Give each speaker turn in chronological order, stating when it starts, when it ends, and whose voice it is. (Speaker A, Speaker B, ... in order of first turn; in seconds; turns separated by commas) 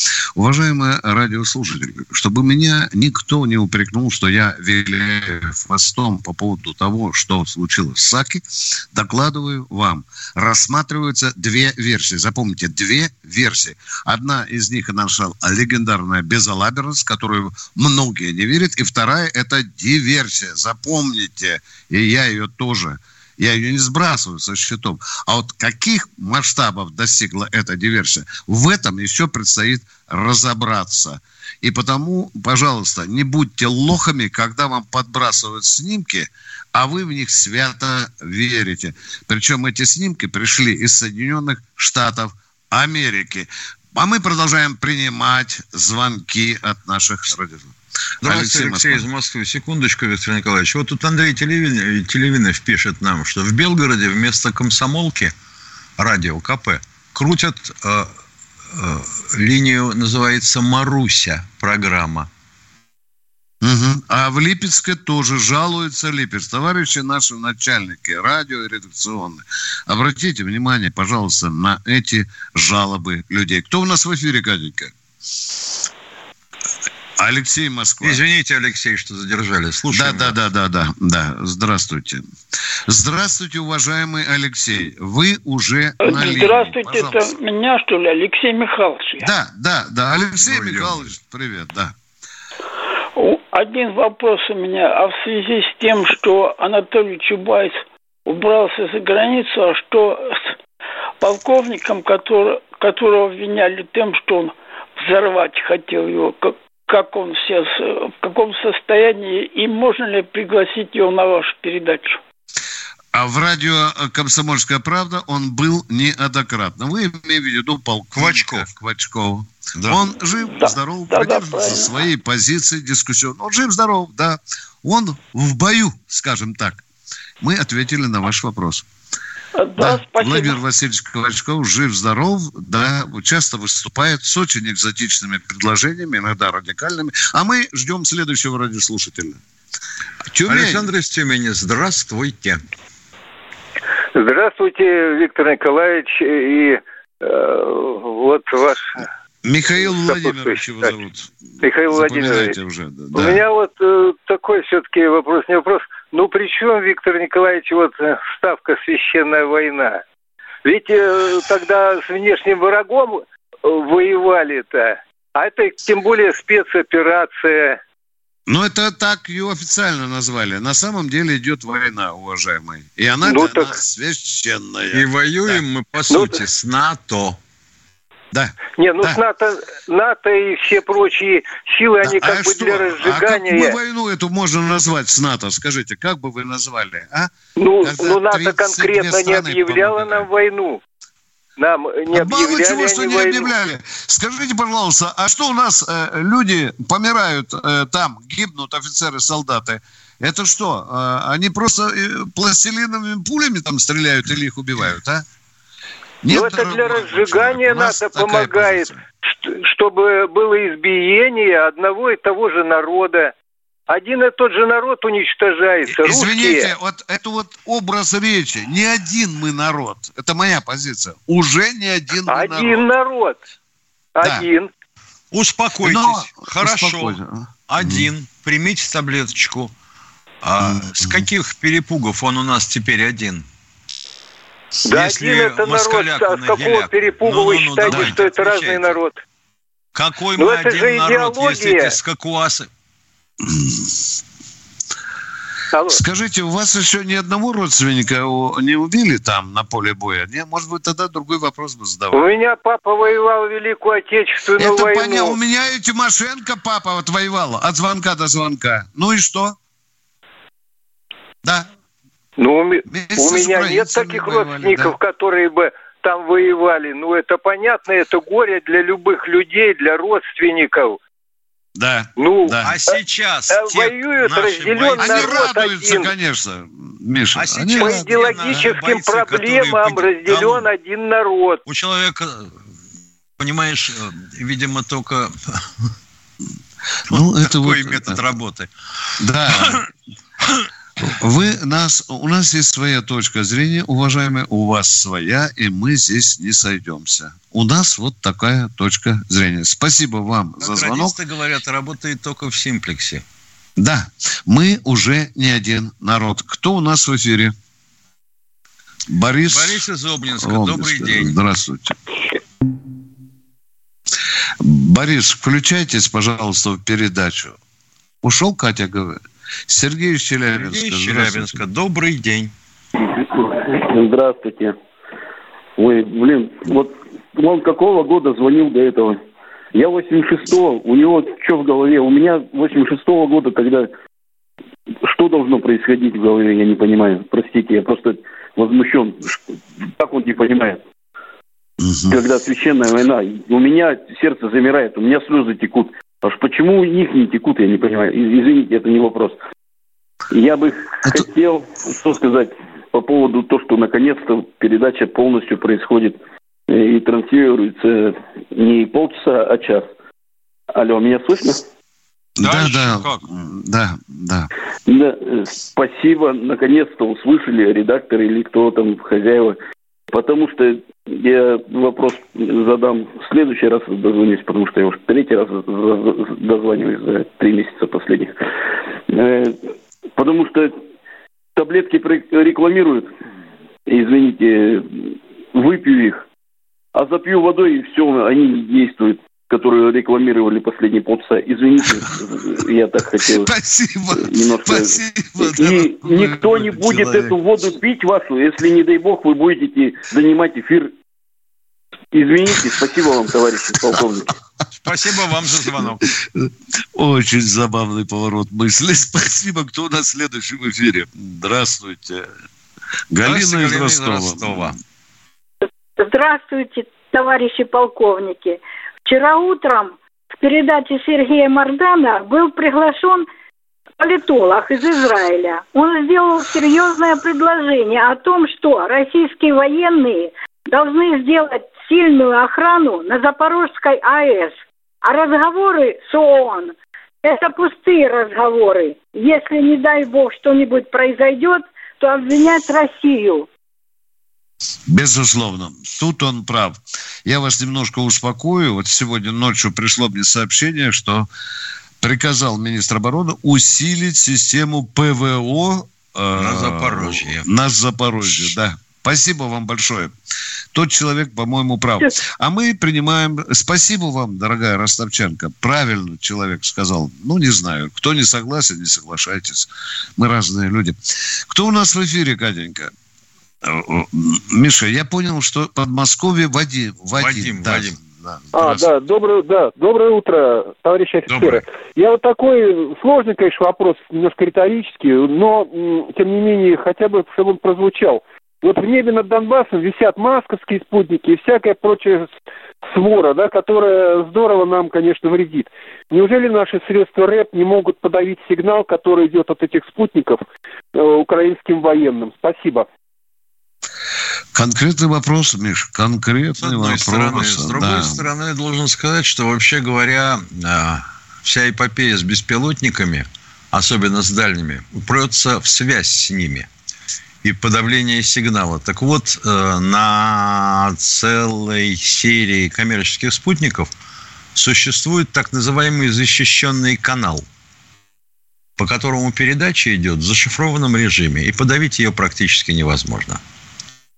Speaker A: 0.3-49.0, Speaker B: 48.2-55.3, Speaker B: 56.0-58.1, Speaker B: 58.7-62.3, Speaker A: 63.6-74.9, Speaker A: 77.2-78.2, Speaker B: 78.0-80.3, Speaker A: 79.9-82.2, Speaker A: 82.9-87.4, Speaker C: 86.0-89.3, Speaker A: 89.2-91.9, Speaker B: 90.4-91.1, Speaker C: 93.2-100.6, Speaker C: 101.2-112.2, Speaker A: 113.1-126.8, Speaker B: 118.1-118.7, Speaker C: 120.4-121.9, Speaker A: 127.4-128.8, Speaker C: 129.6-130.6, Speaker A: 129.8-139.4, Speaker A: 140.3-140.9, Speaker B: 140.4-142.6, Speaker D: 144.2-148.9, Speaker A: 149.4-151.3, Speaker D: 150.0-150.9, Speaker D: 151.6-152.5, Speaker A: 151.8-153.4, Speaker D: 153.1-160.0, Speaker D: 160.6-167.8, Speaker A: 168.5-175.6, Speaker D: 173.2-173.7, Speaker B: 174.9-177.4, Speaker D: 176.1-176.4, Speaker A: 178.3-179.2, Speaker D: 178.8-183.7, Speaker A: 182.0-190.3, Speaker D: 187.6-190.8, Speaker D: 191.6-193.5, Speaker A: 192.1-205.2, Speaker A: 206.2-209.0, Speaker D: 206.3-208.9, Speaker D: 209.4-213.3, Speaker D: 213.9-216.7, Speaker A: 215.8-222.9, Speaker D: 222.3-223.4, Speaker D: 224.2-224.7, Speaker A: 224.2-224.5, Speaker B: 225.3-229.7, Speaker A: 225.8-228.1, Speaker B: 230.4-233.4, Speaker A: 230.6-231.2, Speaker D: 234.8-239.2, Speaker B: 234.9-239.0, Speaker A: 237.9-238.2, Speaker B: 239.9-242.7, Speaker D: 240.4-241.9, Speaker A: 243.4-243.9, Speaker D: 245.7-246.0, Speaker A: 245.9-252.3, Speaker D: 252.1-255.4, Speaker A: 254.5-259.6, Speaker D: 262.4-271.0, Speaker A: 262.9-264.9, Speaker A: 271.8-272.8, Speaker D: 272.2-272.6, Speaker B: 272.6-275.4, Speaker D: 273.5-276.1, Speaker A: 274.8-278.8, Speaker B: 277.3-280.7, Speaker D: 277.8-281.6, Speaker B: 281.6-282.6, Speaker B: 283.4-285.6, Speaker A: 287.1-288.3, Speaker B: 287.1-288.7, Speaker A: 289.2-289.8, Speaker A: 291.1-301.1, Speaker B: 300.6-303.2, Speaker A: 303.8-307.5, Speaker A: 309.1-309.8, Speaker B: 309.5-311.4, Speaker A: 310.4-311.9, Speaker A: 314.6-317.6, Speaker A: 318.2-321.6, Speaker B: 320.5-322.5, Speaker E: 323.1-324.8, Speaker E: 325.8-329.2, Speaker E: 329.7-333.9, Speaker E: 335.0-339.4, Speaker E: 340.0-340.8, Speaker A: 341.8-342.1, Speaker E: 342.1-349.4, Speaker E: 350.3-359.9, Speaker E: 360.7-361.6, Speaker A: 362.4-364.5, Speaker B: 362.4-363.2, Speaker E: 364.9-369.6, Speaker E: 370.1-378.3, Speaker E: 379.1-379.6, Speaker E: 380.1-380.7, Speaker E: 381.5-383.1, Speaker E: 383.9-386.2, Speaker E: 386.9-393.5, Speaker A: 393.3-397.3, Speaker E: 394.1-400.9, Speaker E: 402.1-404.3, Speaker B: 404.7-406.1, Speaker A: 406.4-412.3, Speaker A: 413.1-414.7, Speaker B: 413.2-414.8, Speaker F: 416.0-423.2, Speaker F: 424.0-443.5, Speaker A: 444.9-451.3, Speaker A: 452.0-460.1, Speaker B: 456.3-457.4, Speaker A: 460.7-471.0, Speaker A: 471.5-472.9, Speaker A: 473.6-478.9, Speaker B: 477.2-478.0, Speaker G: 478.5-492.3, Speaker B: 481.3-481.6, Speaker G: 492.9-500.4, Speaker G: 500.9-502.9, Speaker A: 504.5-508.3, Speaker B: 506.6-516.7, Speaker B: 517.4-523.9, Speaker B: 524.5-527.4, Speaker B: 528.8-533.4